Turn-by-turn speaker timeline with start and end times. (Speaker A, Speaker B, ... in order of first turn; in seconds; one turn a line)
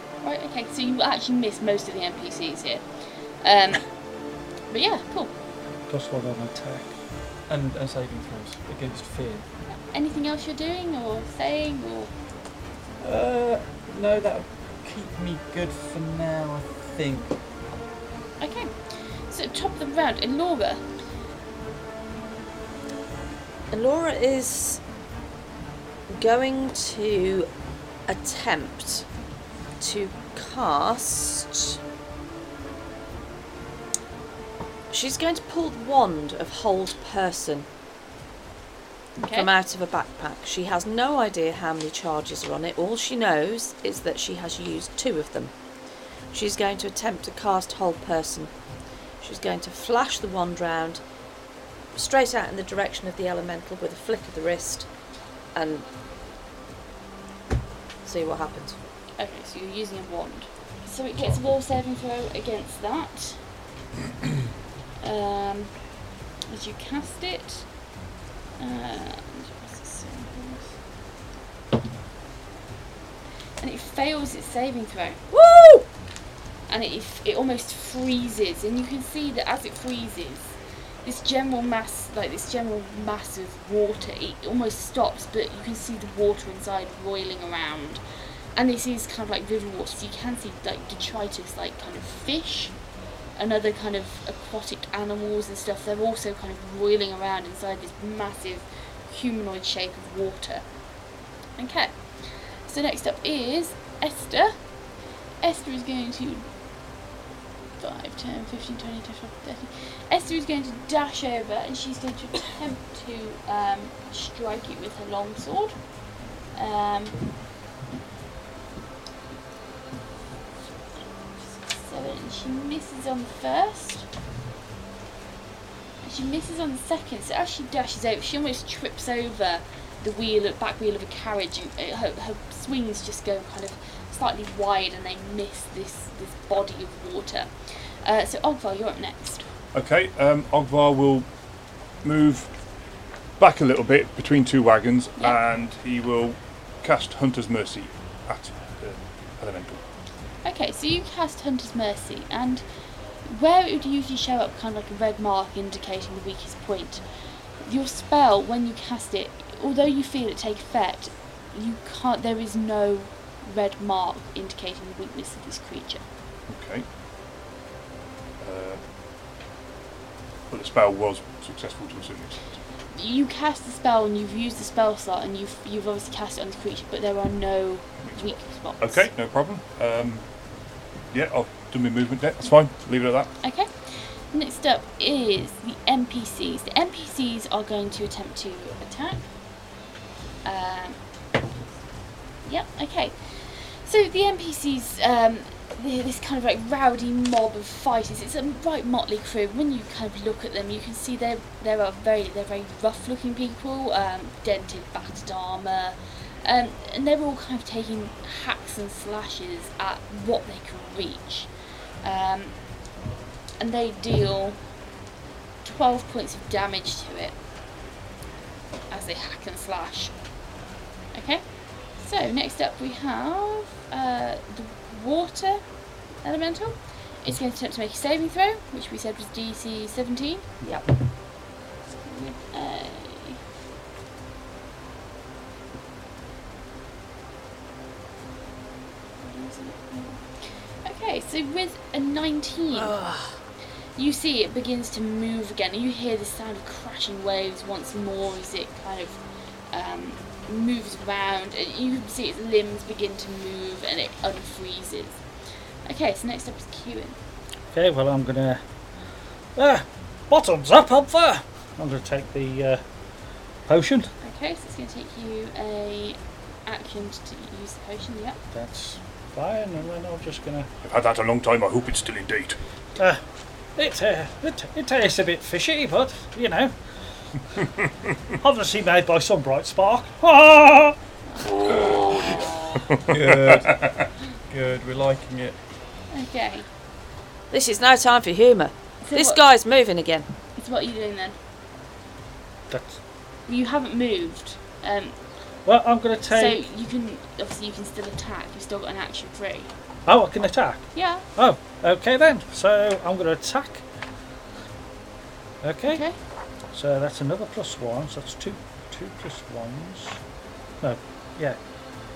Speaker A: 0.2-2.9
Speaker A: 3.4-3.9
Speaker A: 4.7-5.3
Speaker B: 5.9-6.9
Speaker C: 7.5-9.4
Speaker A: 9.7-12.1
Speaker C: 13.0-17.3
Speaker A: 18.4-20.8
Speaker D: 23.7-24.8
Speaker D: 26.1-27.5
Speaker D: 28.1-29.1
Speaker D: 29.8-31.8
Speaker D: 34.9-37.7
Speaker A: 39.2-39.5
Speaker D: 39.3-45.5
Speaker D: 46.3-48.5
Speaker D: 49.2-51.0
Speaker D: 51.9-54.9
Speaker D: 55.5-55.9
Speaker D: 58.0-58.8
Speaker A: 59.2-63.4
Speaker A: 65.0-65.7
Speaker A: 66.5-67.7
Speaker A: 68.6-70.7
Speaker A: 73.6-75.2
Speaker D: 75.3-75.8
Speaker A: 76.7-88.0
Speaker A: 88.5-92.7
Speaker A: 93.3-100.6
Speaker A: 101.6-104.5
Speaker A: 105.4-106.5
Speaker A: 107.8-115.8
Speaker A: 116.5-117.2
Speaker A: 121.4-124.1
Speaker A: 126.0-137.5
Speaker A: 138.0-139.4
Speaker E: 139.7-141.2
Speaker E: 142.0-142.5
Speaker E: 143.4-149.8
Speaker A: 150.4-152.6
Speaker A: 153.2-157.0
Speaker A: 157.6-166.0
Speaker E: 166.5-166.8
Speaker E: 168.4-168.8
Speaker E: 170.5-172.5
Speaker A: 172.9-179.1
Speaker E: 178.0-180.2
Speaker E: 181.1-183.3
Speaker A: 183.4-189.3
Speaker A: 190.4-191.0
Speaker A: 192.4-211.5
Speaker A: 212.0-212.5
Speaker A: 213.6-214.6
Speaker A: 215.6-217.3
Speaker A: 218.9-220.1
Speaker A: 221.1-221.4
Speaker A: 221.9-225.6
Speaker A: 226.2-230.4
Speaker D: 230.6-230.9
Speaker A: 232.0-233.4
Speaker A: 239.2-243.0
Speaker D: 242.7-243.4
Speaker A: 243.9-249.2
Speaker A: 249.7-255.2
Speaker A: 255.8-257.1
Speaker B: 257.7-258.6
Speaker B: 259.5-262.8
Speaker B: 263.6-264.1
Speaker A: 264.2-268.4
Speaker B: 268.5-270.7
Speaker E: 270.8-272.6
Speaker B: 273.8-276.8
Speaker B: 278.4-280.9
Speaker A: 281.3-282.9
Speaker E: 281.6-284.1
Speaker C: 283.1-285.5
Speaker A: 286.1-286.7
Speaker D: 287.5-290.2
Speaker A: 289.0-289.4
Speaker A: 290.6-291.4
Speaker B: 292.7-293.0
Speaker A: 293.5-295.1
Speaker B: 295.6-296.6
Speaker A: 296.3-299.7
Speaker B: 300.1-303.8
Speaker A: 300.9-301.2
Speaker B: 305.6-306.0
Speaker A: 305.9-306.1
Speaker B: 306.7-310.2
Speaker B: 310.8-311.6